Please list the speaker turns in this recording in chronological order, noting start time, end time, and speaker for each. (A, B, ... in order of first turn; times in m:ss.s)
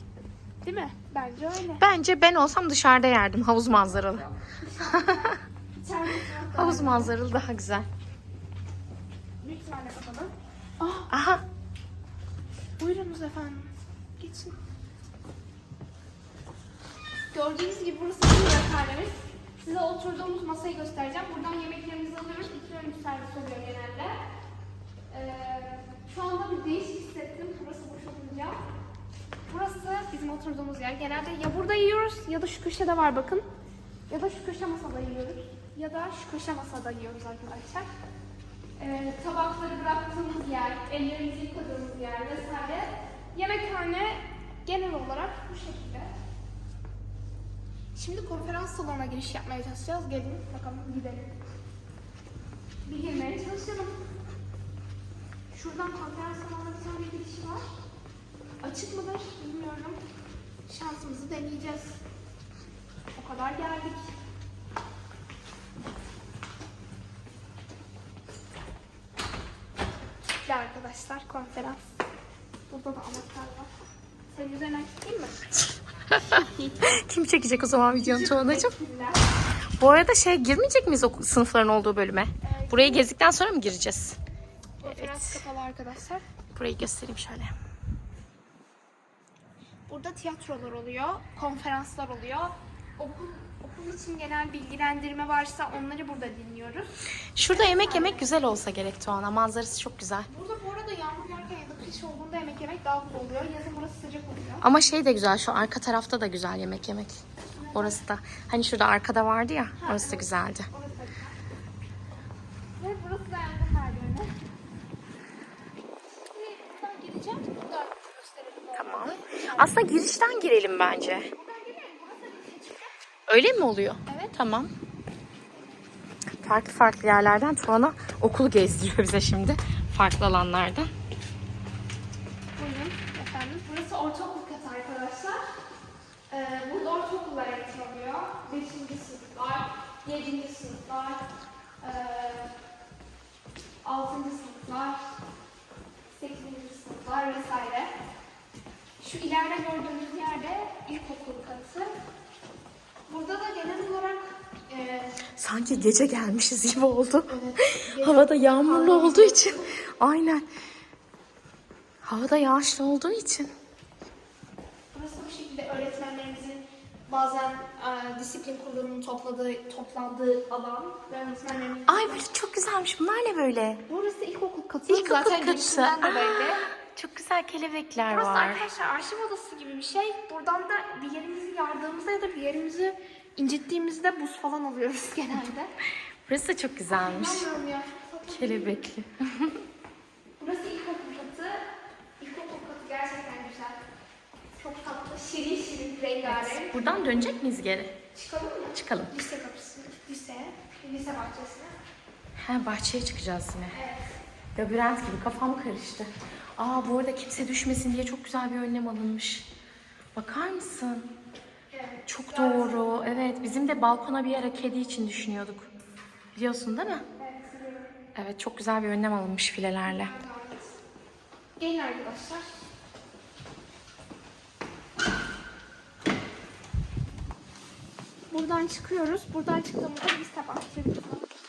0:00.6-0:01.8 A
0:01.8-0:04.3 B
0:04.5-0:07.2 A
0:04.8-0:05.4 B
0:06.5-0:07.9 B
0:09.4-0:11.1 A
0:11.1-0:11.4 B
0:12.8-0:14.6 A
0:17.3-0:24.2 A
0:25.1-0:28.6 A
0:29.5-0:33.5 A
0:34.1-0:37.9 A
0:38.8-0:46.1 A
0:47.9-0:51.3 A
0:52.8-0:53.9 A
0:55.5-0:57.6 A
0:58.6-1:00.0 A
1:00.7-1:02.0 A
1:03.2-1:04.1 A
1:10.4-1:11.9 A
1:12.7-1:13.7 A
1:14.3-1:15.5 A
1:16.1-1:18.7 B
1:16.3-1:16.7 A
1:18.0-1:19.4 A
1:19.8-1:24.2 B
1:22.4-1:23.1 A
1:24.8-1:26.2 A
1:24.8-1:25.4 B
1:26.5-1:27.5 B
1:29.9-1:36.9 A
1:37.4-1:40.3 B
1:37.5-1:38.3 A
1:40.3-1:44.6 A
1:44.6-1:47.2 B
1:47.5-1:48.0 A
1:47.7-1:50.7 B
1:49.8-1:51.4 A
1:52.8-1:54.3 A
1:56.2-1:59.8 A
1:58.7-2:01.3 B
2:01.3-2:02.9 A
2:03.3-2:04.7 B
2:04.1-2:04.3 A
2:05.5-2:05.8 A
2:06.4-2:10.9 B
2:12.6-2:15.4 A
2:16.3-2:21.2 A
2:21.8-2:22.5 A
2:23.8-2:25.0 A
2:26.1-2:27.9 A
2:29.0-2:31.9 A
2:33.1-2:35.2 A
2:35.4-2:40.4 B
2:37.3-2:39.7 A
2:42.0-2:43.5 B
2:44.9-2:52.2 A
2:51.8-2:53.8 B
2:53.9-2:56.6 A
2:54.9-2:58.6 B
2:58.0-3:05.7 A
3:06.2-3:07.5 B
3:06.9-3:08.8 A
3:08.3-3:09.6 B
3:10.4-3:11.6 A
3:12.2-3:13.8 A
3:14.6-3:16.8 A
3:16.2-3:18.0 B
3:18.1-3:21.8 A
3:18.7-3:19.1 B
3:22.4-3:23.8 B
3:23.7-3:24.1 A
3:24.6-3:29.5 B
3:30.2-3:31.1 B
3:31.7-3:32.9 A
3:32.1-3:35.7 B
3:36.3-3:37.0 B
3:37.1-3:37.9 A
3:38.1-3:40.1 B
3:39.8-3:40.7 A
3:41.6-3:42.5 A
3:48.3-3:51.3 A